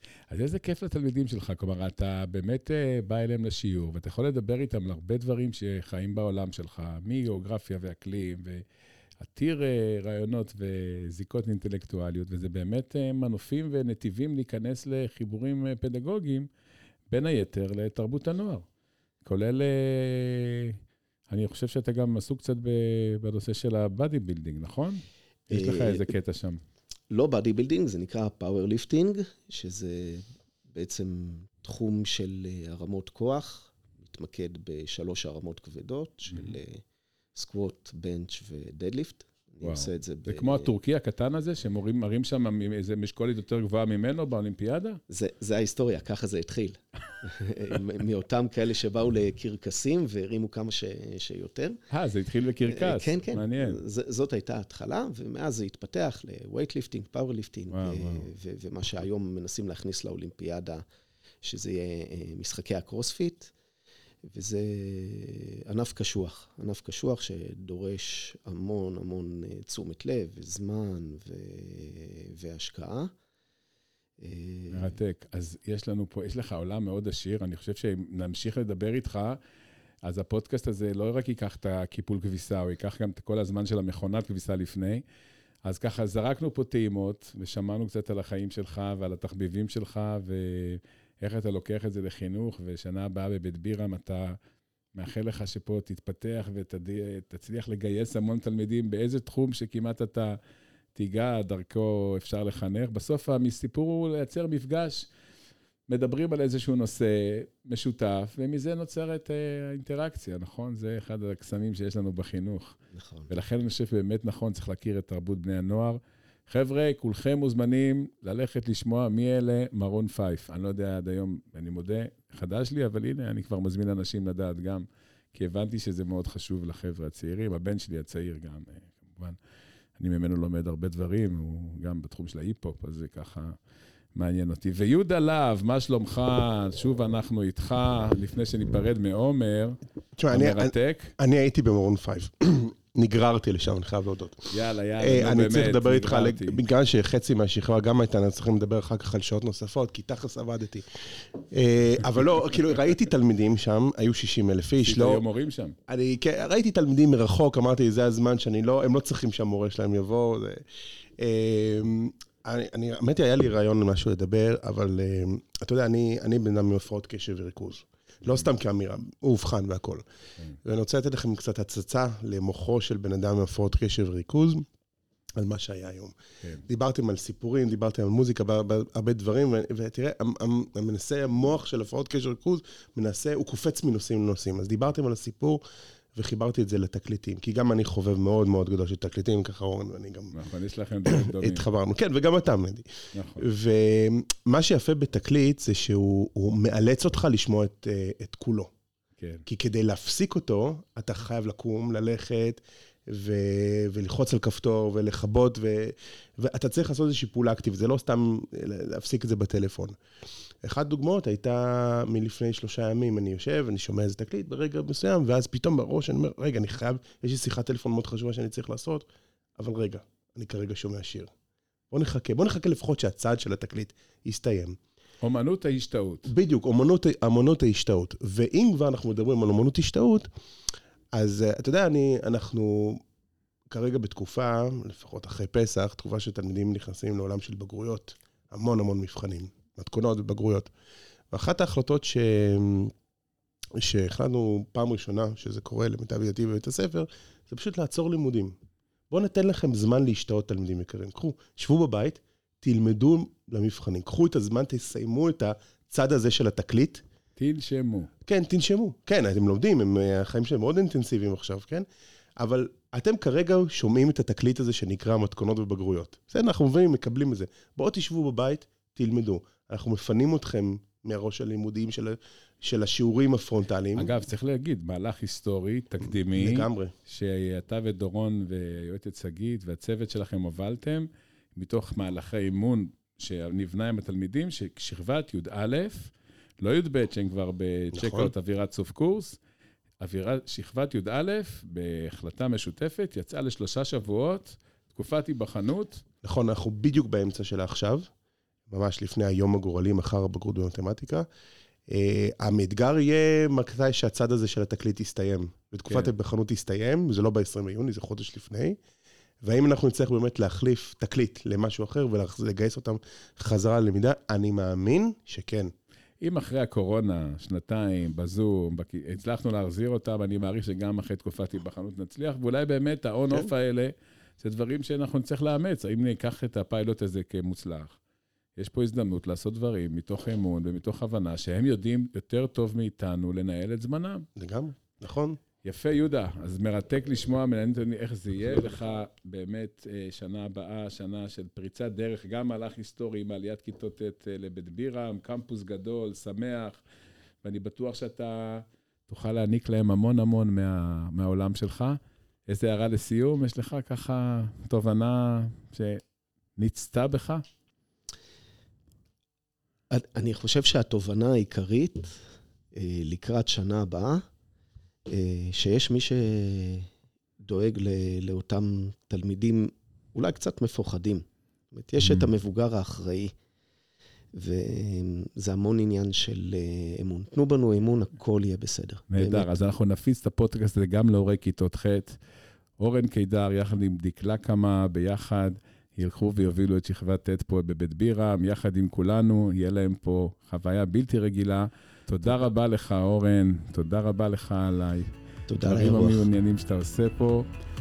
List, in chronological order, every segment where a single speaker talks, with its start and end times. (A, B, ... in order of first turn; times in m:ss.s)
0:00.3-0:08.6 A
0:09.2-0:16.5 A
0:17.1-0:18.6 A
0:19.2-0:26.6 A
0:25.5-0:26.1 B
0:27.1-0:36.8 B
0:37.3-0:40.7 B
0:39.6-0:45.0 A
0:45.1-0:51.8 B
0:51.9-0:53.8 A
0:52.6-1:00.8 B
0:57.7-0:58.3 A
1:01.4-1:03.5 B
1:04.2-1:13.1 B
1:14.2-1:15.0 B
1:14.7-1:19.4 A
1:20.0-1:25.0 A
1:25.6-1:34.4 A
1:34.9-1:40.4 A
1:40.9-1:45.1 A
1:45.9-1:52.8 A
1:52.9-1:53.3 B
1:53.3-2:09.4 A
2:10.0-2:13.6 A
2:14.1-2:19.8 A
2:20.2-2:35.2 C
2:20.3-2:21.1 A
2:24.5-2:26.6 A
2:34.8-2:35.8 A
2:35.9-2:40.6 C
2:41.2-2:50.0 C
2:50.6-2:54.6 C
2:55.4-3:05.6 C
3:06.1-3:10.3 C
3:10.3-3:11.6 A
3:11.0-3:18.7 C
3:13.1-3:13.4 A
3:19.2-3:19.4 A
3:19.5-3:30.0 C
3:30.6-3:41.3 C
3:41.9-3:44.8 C
3:45.2-3:46.3 A
3:46.3-3:50.3 C
3:51.1-3:53.0 C
3:53.7-4:00.7 C
4:01.3-4:02.9 C
4:03.7-4:08.5 C
4:09.1-4:17.0 C
4:17.4-4:18.1 A
4:18.2-4:21.8 C
4:22.4-4:34.1 C
4:33.9-4:49.4 A
4:36.3-4:36.9 C
4:47.9-4:48.3 C
4:50.0-4:56.0 A
4:56.2-4:58.1 C
4:58.7-5:01.2 C
5:01.9-5:08.8 C
5:09.4-5:15.7 C
5:16.2-5:28.0 A
5:28.6-5:34.2 A
5:34.4-5:35.4 C
5:35.6-5:46.8 A
5:47.4-5:56.0 A
5:56.6-5:57.4 A
5:59.9-6:04.2 B
6:05.1-6:06.9 B
6:07.4-6:13.3 B
6:14.3-6:19.5 B
6:19.1-6:22.2 A
6:22.8-6:37.5 A
6:35.5-6:36.2 B